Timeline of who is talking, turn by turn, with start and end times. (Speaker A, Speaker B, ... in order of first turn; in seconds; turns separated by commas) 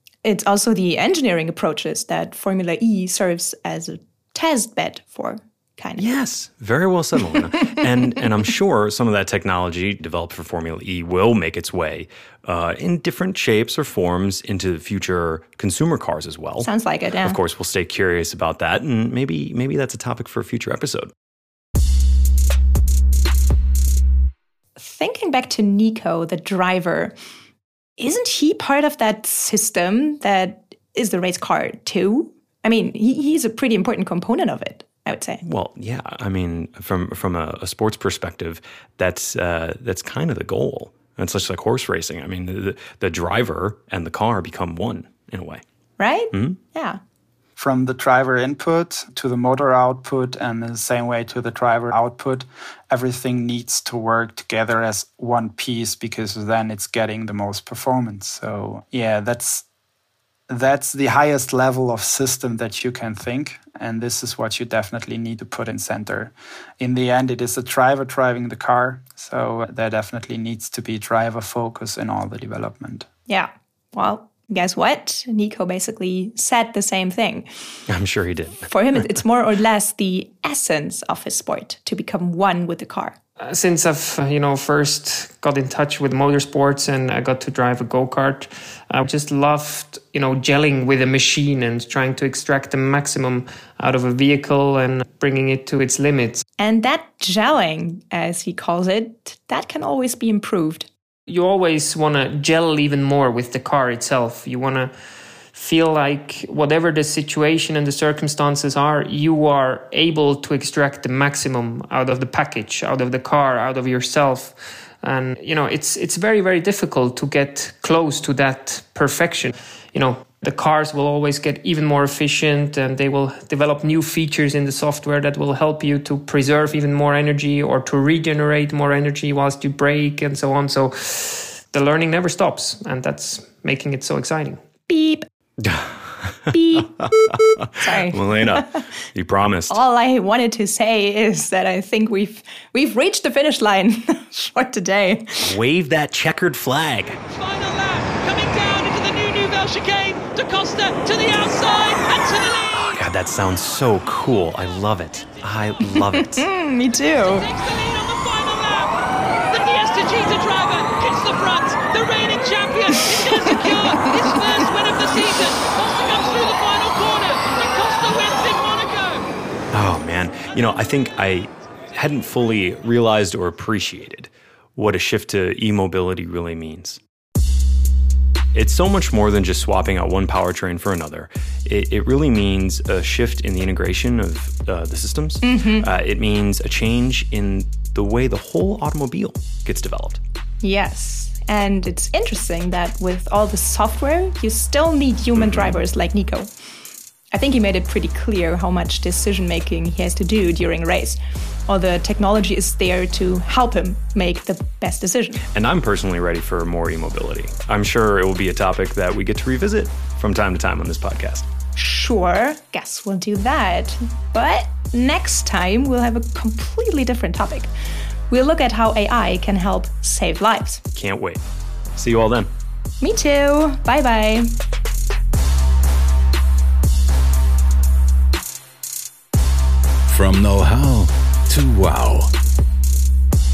Speaker A: 0.2-6.1, Speaker B: 6.0-16.7, Speaker A: 16.6-17.4, Speaker B: 17.2-21.1, Speaker A: 24.8-27.1, Speaker A: 28.0-35.4, Speaker B: 35.4-45.6, Speaker A: 46.0-47.0, Speaker B: 46.3-46.6, Speaker C: 47.6-59.6, Speaker C: 60.5-73.1, Speaker A: 73.3-77.5, Speaker B: 77.9-78.7, Speaker A: 78.7-83.2, Speaker D: 83.4-96.4, Speaker A: 96.6-100.9, Speaker D: 101.3-104.9, Speaker D: 105.5-134.6, Speaker A: 134.9-135.2, Speaker B: 135.6-139.8, Speaker A: 136.5-137.1, Speaker A: 137.8-138.8, Speaker A: 139.7-145.5, Speaker B: 145.4-147.2, Speaker E: 147.2-153.0, Speaker B: 152.7-156.4, Speaker A: 155.9-157.5, Speaker E: 157.2-158.9, Speaker E: 159.5-169.2, Speaker B: 169.7-177.0, Speaker B: 178.5-190.2, Speaker A: 185.4-185.9, Speaker A: 190.6-196.5, Speaker B: 195.3-195.8, Speaker A: 197.3-205.4, Speaker B: 205.5-211.5, Speaker A: 211.8-217.7, Speaker A: 218.3-220.8, Speaker B: 220.9-221.4, Speaker B: 221.9-222.5, Speaker A: 223.0-224.5, Speaker F: 230.1-232.3